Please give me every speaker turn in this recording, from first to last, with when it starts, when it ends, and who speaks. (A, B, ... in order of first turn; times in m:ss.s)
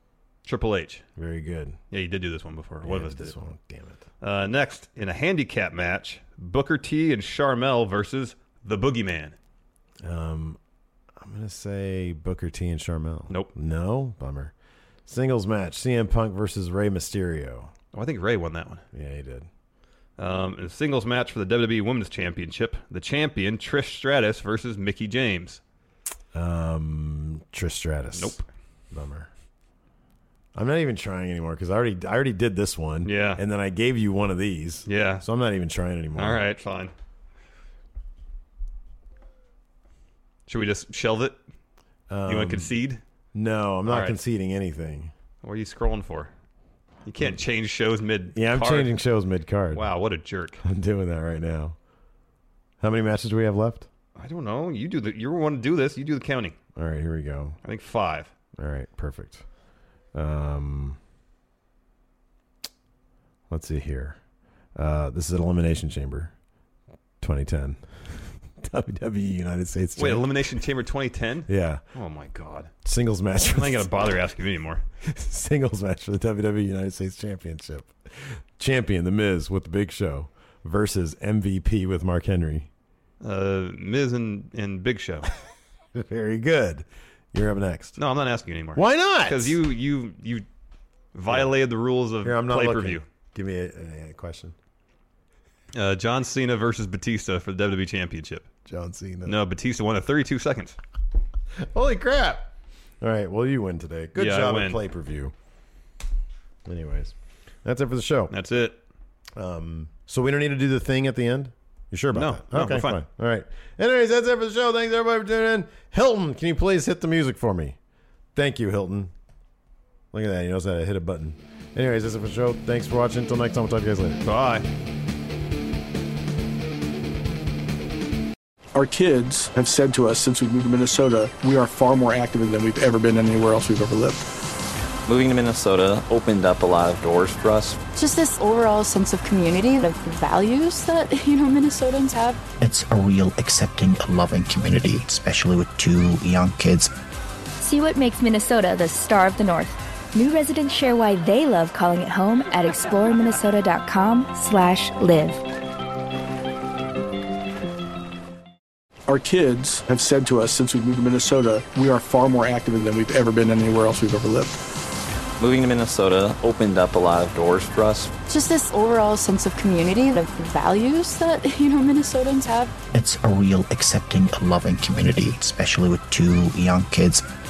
0:00.4-0:01.0 A
0:01.2-0:01.8 B
0:01.9-0:03.4 A
0:02.8-0:04.0 B
0:04.2-0:09.4 A
0:10.0-0:10.6 B
0:11.2-0:14.5 B
0:15.0-0:17.7 B
0:17.9-0:18.8 A
0:18.9-0:19.5 B
0:20.2-0:25.6 A
0:26.3-0:28.4 B
0:28.1-0:28.4 A
0:28.9-0:29.3 B
0:30.5-0:36.5 B
0:33.0-0:33.4 A
0:34.8-0:35.2 A
0:36.2-0:36.9 A
0:40.5-0:41.4 A
0:42.1-0:42.7 B
0:42.3-0:43.0 A
0:43.3-0:45.1 B
0:43.9-0:44.2 A
0:45.4-0:46.3 A
0:47.0-0:49.0 A
0:48.3-0:49.8 B
0:49.7-0:50.6 A
0:50.6-0:51.8 B
0:52.8-0:53.9 B
0:54.2-0:56.6 A
0:56.8-0:57.6 B
0:57.6-0:58.3 A
0:58.6-0:59.4 B
1:00.1-1:01.0 B
1:03.5-1:04.2 B
1:04.8-1:06.3 B
1:07.2-1:10.4 B
1:10.0-1:12.7 A
1:11.5-1:11.8 B
1:12.8-1:14.0 B
1:13.5-1:14.8 A
1:15.0-1:22.7 B
1:23.2-1:25.3 A
1:25.9-1:28.0 B
1:28.0-1:30.4 A
1:28.7-1:29.6 B
1:31.1-1:33.0 A
1:32.2-1:34.5 B
1:35.7-1:38.5 A
1:38.6-1:39.4 B
1:39.2-1:40.8 A
1:41.6-1:42.5 B
1:43.0-1:45.3 B
1:44.2-1:44.8 A
1:46.6-1:48.3 B
1:48.3-1:48.8 A
1:49.4-1:57.8 B
1:52.1-1:53.0 A
1:58.3-1:59.1 B
2:00.1-2:04.2 B
2:04.2-2:04.7 A
2:08.7-2:14.2 C
2:15.0-2:17.8 D
2:18.0-2:22.4 E
2:22.6-2:26.9 F
2:27.6-2:35.4 G
2:39.1-2:44.6 C
2:45.4-2:48.1 D
2:48.3-2:52.7 E
2:52.9-2:57.2 F